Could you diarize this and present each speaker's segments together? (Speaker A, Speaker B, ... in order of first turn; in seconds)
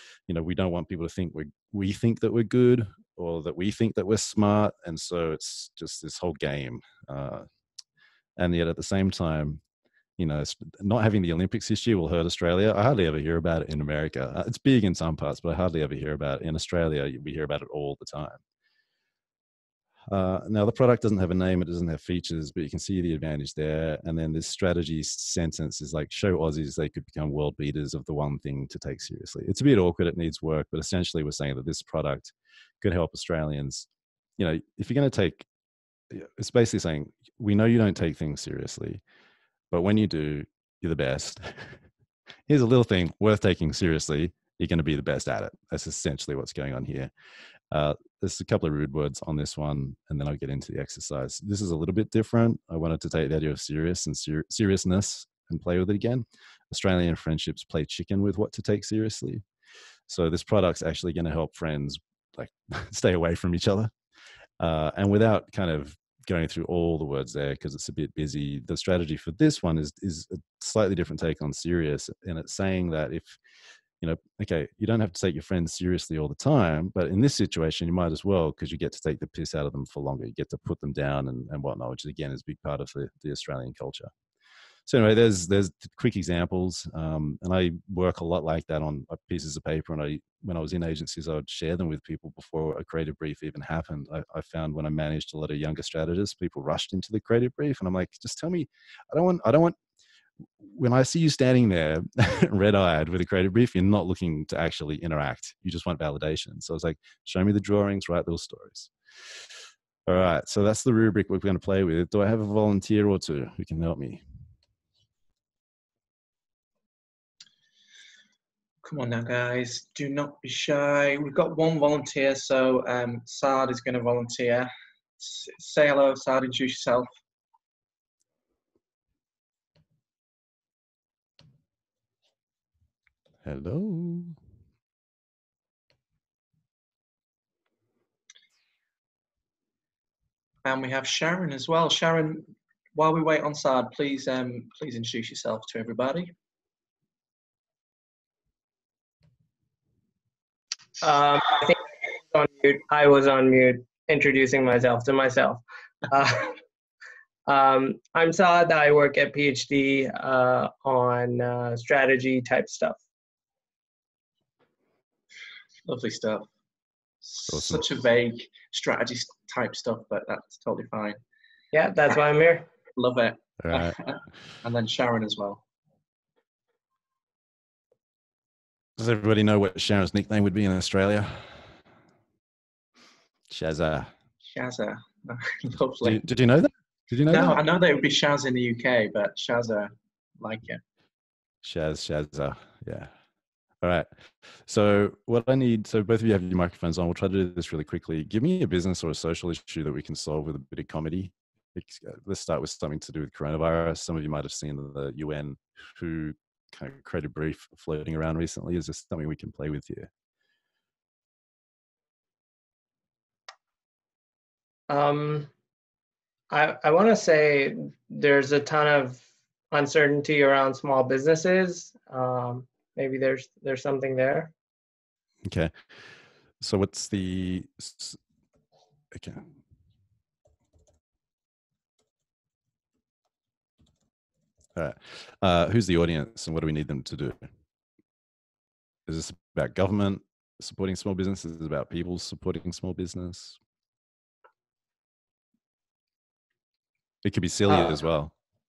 Speaker A: 0.3-7.5, 8.4-9.6, 10.2-18.4, 20.1-33.9, 34.4-35.5, 36.1-39.0, 39.7-41.7, 42.5-47.1, 47.7-59.4, 60.1-63.9, 64.6-73.4, 74.0-84.1, 84.8-99.8, 100.6-108.9, 110.0-114.2, 133.4-134.3, 167.5-167.9, 173.6-174.0, 179.0-181.6, 183.5-184.1, 186.0-187.6, 191.6-193.1, 193.8-194.1, 194.7-210.1, 225.4-225.7, 226.6-228.2, 229.1-229.4, 234.7-237.5, 239.1-243.6, 247.2-248.3
Speaker B: 118.8-127.1, 140.6-146.3, 165.8-166.5, 167.2-171.2, 172.9-175.6, 184.4-186.2, 187.3-190.8
Speaker C: 151.0-156.6, 157.4-163.0, 171.7-172.7, 214.9-215.5, 216.5-224.5